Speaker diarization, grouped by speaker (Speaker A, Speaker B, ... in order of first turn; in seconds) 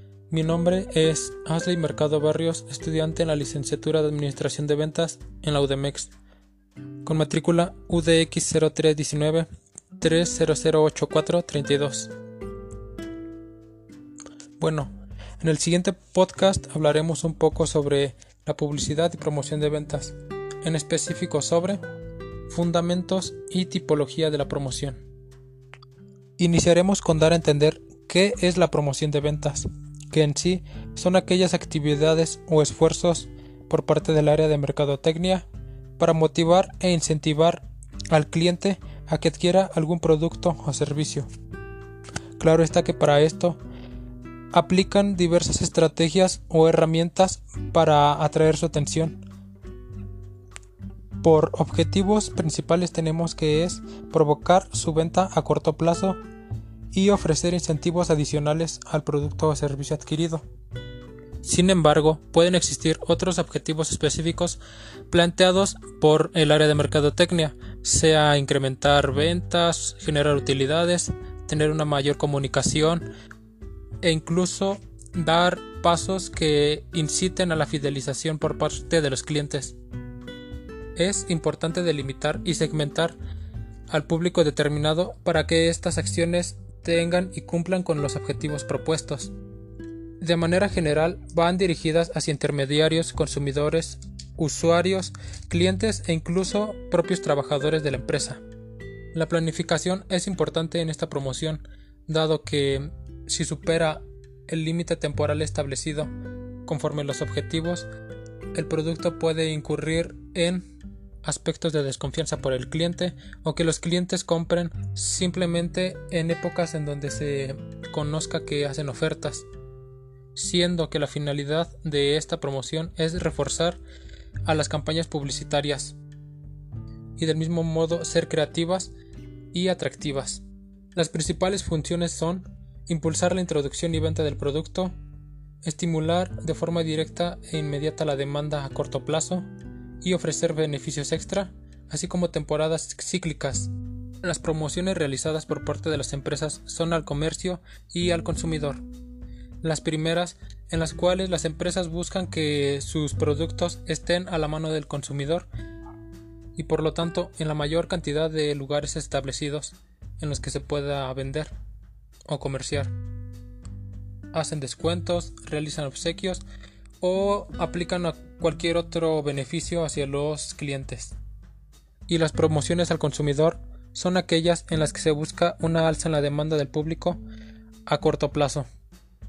Speaker A: 0.3-6.1, 7.0-12.1, 14.6-21.8, 22.5-25.0, 26.4-35.5, 36.0-41.3, 42.4-43.6, 44.5-49.2, 51.2-56.2, 56.9-60.4, 61.4-73.1, 74.0-79.8, 80.9-83.2, 83.9-89.3, 90.2-98.4, 99.1-106.1, 106.7-107.9, 108.5-110.7, 111.2-119.5, 120.3-123.8, 124.4-126.0, 127.2-128.9, 129.5-134.9, 135.6-139.5, 140.0-143.7, 144.2-148.8, 149.6-155.5, 156.6-161.5, 162.3-162.9, 164.3-166.4, 167.0-171.2, 172.1-177.2, 177.8-178.7